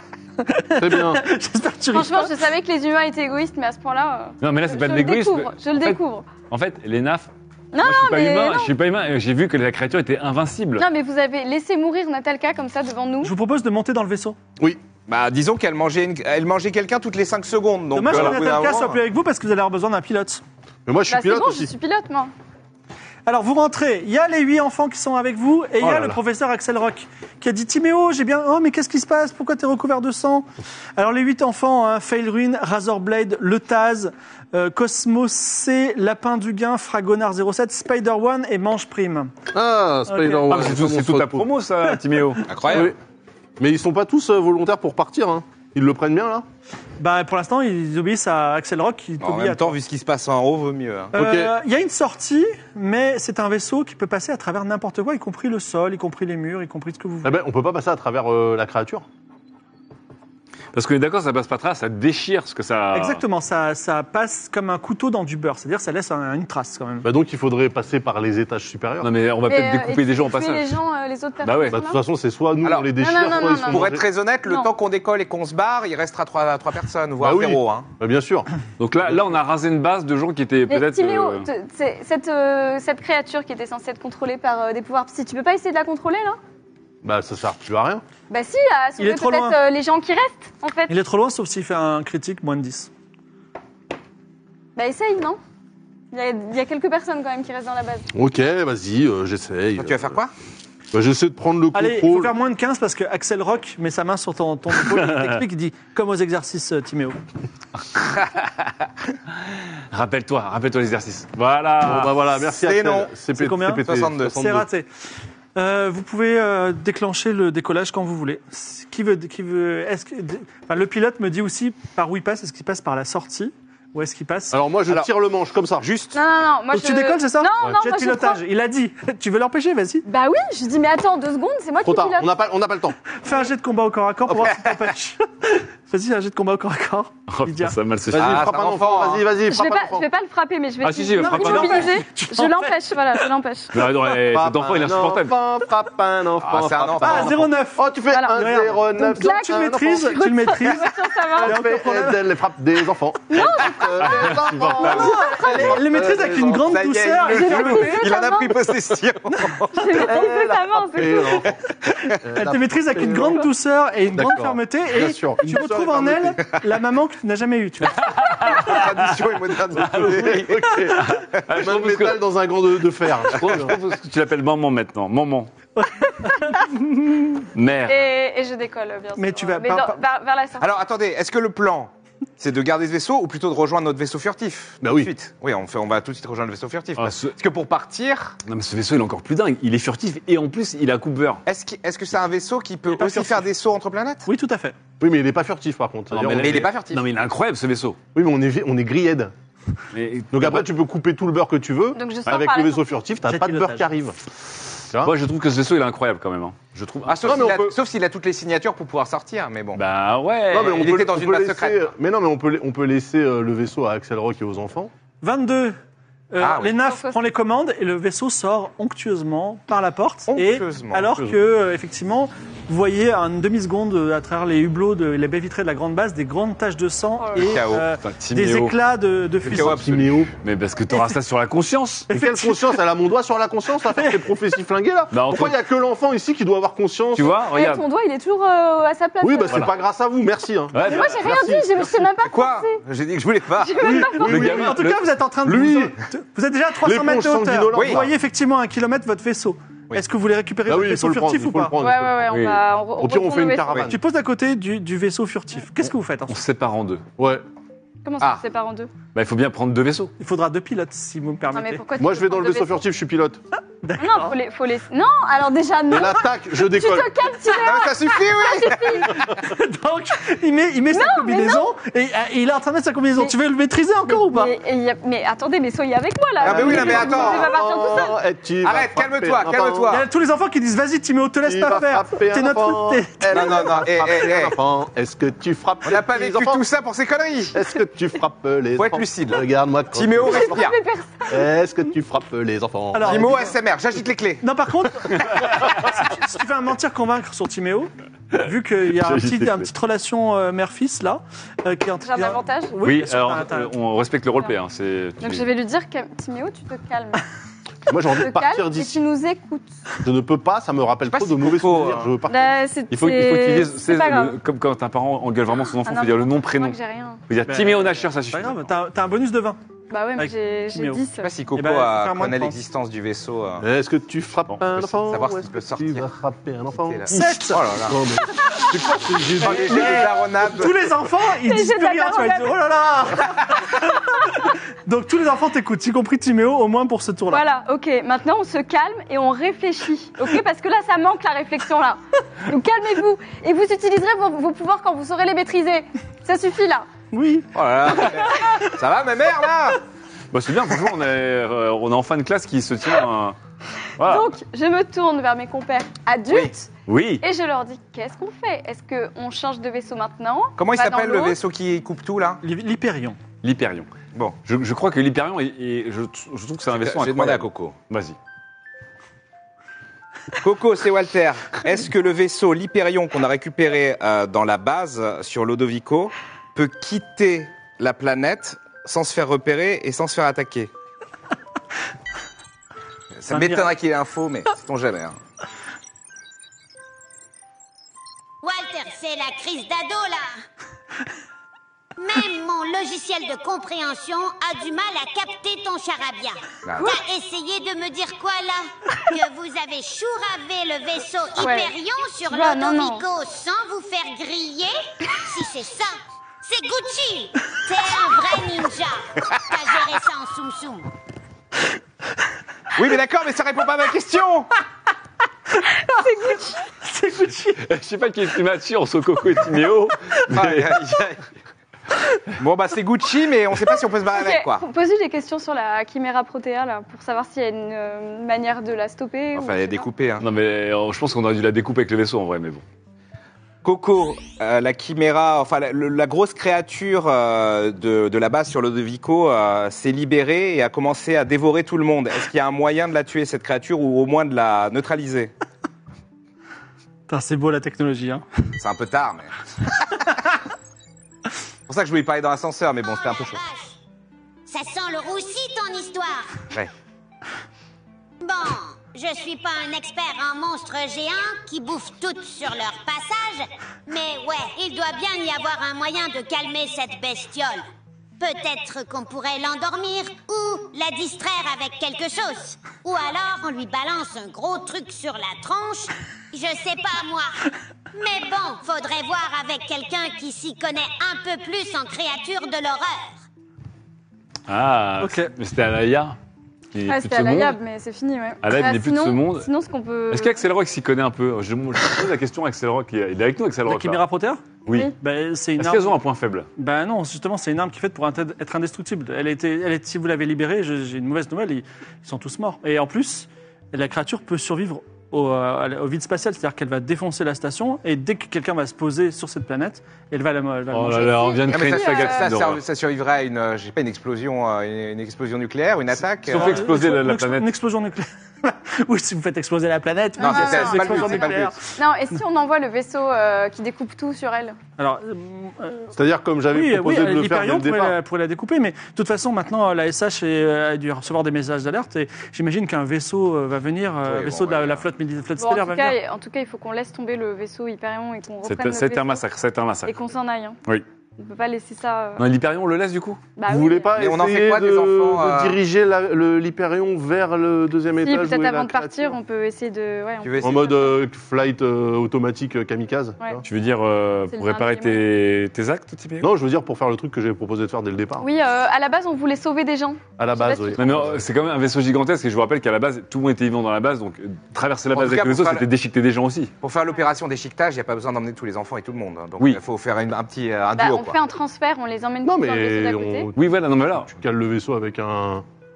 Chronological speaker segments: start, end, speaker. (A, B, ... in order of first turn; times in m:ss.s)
0:00.4-0:02.3 A
0:00.8-0:01.2 B
0:01.9-0:06.3 C
0:04.4-0:10.9 D
0:07.7-0:08.7 C
0:10.8-0:13.3 C
0:13.2-0:14.4 A
0:15.1-0:19.0 E
0:17.9-0:20.4 A
0:20.9-0:21.7 B
0:21.1-0:22.3 C
0:23.3-0:39.3 A
0:25.8-0:26.2 D
0:39.5-0:41.5 B
0:40.1-0:40.6 A
0:40.5-0:42.6 D
0:41.8-0:42.4 A
0:42.5-0:42.9 E
0:42.7-0:43.0 B
0:43.6-0:46.5 B
0:47.0-0:49.8 A
0:49.2-0:51.2 E
0:51.2-0:51.5 B
0:51.2-0:57.3 A
0:57.2-0:59.0 B
1:00.7-1:03.2 D
1:02.9-1:07.1 A
1:07.0-1:09.1 B
1:09.0-1:10.8 D
1:09.4-1:12.0 C
1:11.4-1:11.8 D
1:11.7-1:14.0 B
1:12.6-1:13.0 E
1:13.0-1:13.9 C
1:13.6-1:17.9 E
1:17.2-1:18.5 B
1:18.8-1:21.5 D
1:20.7-1:26.4 C
1:27.0-1:28.0 B
1:28.3-1:30.9 C
1:29.0-1:29.6 A
1:30.9-1:32.9 A
1:34.8-1:35.4 C
1:36.1-1:38.1 C
1:38.1-1:40.2 B
1:39.8-1:40.3 E
1:40.9-1:42.3 B
1:41.7-1:47.2 A
1:45.0-1:45.3 D
1:49.5-1:52.2 D
1:51.8-1:54.6 B
1:52.5-1:53.2 E
1:53.4-1:54.9 A
1:53.8-1:54.4 E
1:55.6-2:04.6 A
2:04.5-2:05.9 B
2:05.8-2:06.2 E
2:06.1-2:08.4 C
2:06.7-2:10.0 A
2:10.1-2:12.4 C
2:11.8-2:13.0 B
2:13.2-2:17.8 A
2:14.3-2:14.9 E
2:17.3-2:18.4 D
2:18.1-2:20.1 B
2:18.1-2:19.3 E
2:19.5-2:23.8 C
2:20.8-2:22.0 D
2:21.2-2:22.7 A
2:23.7-2:25.4 D
2:24.1-2:30.2 B
2:26.4-2:27.4 E
2:27.0-2:32.3 A
2:28.1-2:28.4 C
2:29.0-2:31.6 C
2:31.4-2:36.7 B
2:33.3-2:35.6 C
2:34.0-2:34.9 D
2:34.8-2:39.9 E
2:34.8-2:38.1 A
2:37.2-2:38.7 C
2:39.7-2:41.5 C
2:40.1-2:41.6 B
2:41.4-2:42.2 E
2:42.3-2:43.5 B
2:42.3-2:48.2 A
2:44.1-2:46.4 B
2:48.0-2:49.0 D
2:48.4-2:50.9 E
2:49.8-2:50.4 D
2:49.9-2:53.8 B
2:51.0-2:52.2 D
2:53.3-2:55.5 D
2:55.8-2:57.3 A
2:57.6-2:58.1 D
2:57.9-3:00.8 C
2:59.2-3:00.0 A
3:00.6-3:08.4 E
3:04.8-3:05.1 B
3:07.0-3:07.4 D
3:08.4-3:11.4 D
3:11.5-3:14.3 E
3:12.9-3:13.4 A
3:14.3-3:14.8 A
3:15.0-3:16.7 B
3:16.1-3:18.0 D
3:16.3-3:17.1 E
3:18.1-3:19.3 B
3:19.9-3:20.7 D
3:20.3-3:24.2 B
3:22.0-3:22.9 C
3:23.3-3:23.9 A
3:25.0-3:27.6 D
3:27.0-3:29.8 E
3:27.2-3:27.7 B
3:29.8-3:30.7 D
3:30.5-3:34.9 B
3:30.5-3:31.9 E
3:35.2-3:35.8 A
3:36.3-3:49.9 A
3:36.4-3:36.8 E
3:36.8-3:37.2 C
3:40.3-3:41.2 E
3:47.2-3:47.6 C
3:47.4-3:47.9 E
3:47.9-3:48.8 D
3:49.4-3:50.2 E
3:49.6-3:50.3 B
3:50.3-3:52.1 D
3:52.1-3:52.8 A
3:52.1-3:57.4 B
3:53.9-3:54.2 A
3:55.1-3:55.6 D
3:57.1-3:57.8 D
3:57.4-3:59.8 C
3:59.2-4:01.8 B
4:00.7-4:01.2 D
4:00.8-4:02.8 C
4:02.1-4:04.0 E
4:03.6-4:04.4 C
4:03.8-4:04.9 B
4:04.1-4:11.8 A
4:04.3-4:05.0 D
4:05.4-4:06.0 B
4:06.8-4:08.1 B
4:07.7-4:08.0 E
4:10.7-4:12.3 B
4:11.8-4:13.8 C
4:12.3-4:12.6 D
4:13.0-4:14.0 B
4:13.9-4:16.4 A
4:16.3-4:17.0 D
4:17.2-4:17.4 B
4:18.0-4:18.9 C
4:19.1-4:20.1 D
4:20.2-4:21.8 A
4:21.5-4:22.8 C
4:22.0-4:23.4 B
4:23.8-4:24.4 A
4:24.0-4:29.2 C
4:25.9-4:27.1 B
4:27.5-4:29.3 E
4:29.3-4:34.5 A
4:30.9-4:31.7 C
4:34.1-4:38.2 C
4:36.4-4:40.0 E
4:36.4-4:40.0 B
4:39.9-4:43.7 A
4:41.4-4:46.6 B
4:43.3-4:44.6 E
4:45.8-4:47.6 E
4:47.5-4:50.6 B
4:48.8-4:50.8 E
4:50.2-4:51.4 C
4:51.3-4:53.4 B
4:52.9-4:53.5 A
4:53.0-4:54.5 E
4:54.4-5:03.7 A
4:55.2-4:55.5 D
4:58.9-4:59.7 D
5:02.0-5:02.8 C
5:02.8-5:05.5 D
5:05.2-5:07.2 C
5:07.9-5:09.0 B
5:08.2-5:09.7 C
5:10.0-5:12.6 B
5:11.0-5:12.2 E
5:12.3-5:14.4 C
5:12.9-5:16.8 D
5:15.7-5:17.2 C
5:17.3-5:18.7 D
5:17.5-5:19.6 A
5:19.9-5:21.3 C
5:20.2-5:21.0 A
5:21.2-5:23.7 E
5:21.6-5:22.6 A
5:23.6-5:27.3 B
5:25.0-5:26.1 E
5:26.8-5:28.0 E
5:27.1-5:27.6 A
5:27.8-5:28.3 B
5:28.6-5:30.9 E
5:29.0-5:30.0 B
5:29.4-5:37.4 A
5:31.4-5:32.7 C
5:37.3-5:46.9 C
5:47.1-5:47.5 A
5:47.5-5:49.8 E
5:50.3-5:53.4 D
5:54.0-5:54.3 D
5:54.0-5:56.7 C
5:56.9-5:57.2 D
5:57.2-6:01.4 C
6:00.6-6:02.4 E
6:02.4-6:03.2 A
6:03.4-6:03.9 D
6:04.4-6:08.2 D
6:06.7-6:07.8 E
6:10.4-6:20.7 E
6:23.2-6:25.2 E
6:23.3-6:23.7 A
6:28.4-6:30.4 F
6:32.0-6:50.9 F
6:36.6-6:37.0 E
6:41.4-6:41.7 C
6:42.3-6:43.0 C
6:52.8-6:54.5 E
6:55.9-6:56.6 C
6:56.8-6:57.6 A
6:57.6-7:00.8 D
7:00.3-7:01.2 E
7:02.4-7:04.6 E
7:04.1-7:09.9 C
7:09.3-7:10.3 E
7:10.2-7:12.6 D
7:13.6-7:25.3 E
7:27.1-7:28.2 A
7:28.6-7:29.3 E
7:31.7-7:33.4 E
7:32.8-7:33.8 F
7:34.5-7:36.4 F
7:38.2-7:47.6 F
7:48.2-7:57.4 F
7:57.9-8:03.2 F
8:04.5-8:06.2 D
8:05.0-8:05.3 A
8:06.7-8:07.6 D
8:06.9-8:10.4 C
8:08.4-8:09.5 D
8:10.1-8:14.0 D
8:13.7-8:14.4 A
8:14.7-8:14.9 D
8:15.0-8:16.0 A
8:15.6-8:16.5 D
8:16.6-8:31.4 A
8:30.7-8:32.6 D
8:31.2-8:32.3 C
8:31.5-8:36.6 E
8:36.3-8:37.5 D
8:36.3-8:41.6 A
8:40.2-8:41.6 E
8:40.2-8:44.6 C
8:44.8-8:45.9 A
8:45.9-8:48.0 B
8:46.5-8:56.0 A
8:54.0-8:54.8 E
8:55.4-8:59.2 C
8:58.4-9:00.0 D
8:59.9-9:00.6 C
9:01.2-9:02.2 C
9:02.2-9:03.2 D
9:03.4-9:04.0 C
9:03.5-9:09.2 B
9:04.0-9:05.6 E
9:08.0-9:10.9 C
9:10.2-9:10.8 E
9:10.4-9:13.4 B
9:13.4-9:16.3 D
9:14.3-9:15.0 C
9:16.2-9:18.3 B
9:18.2-9:20.8 C
9:20.2-9:21.3 B
9:20.8-9:26.5 D
9:24.9-9:25.7 E
9:26.6-9:31.2 E
9:30.8-9:33.3 C
9:32.2-9:35.4 B
9:33.4-9:34.1 D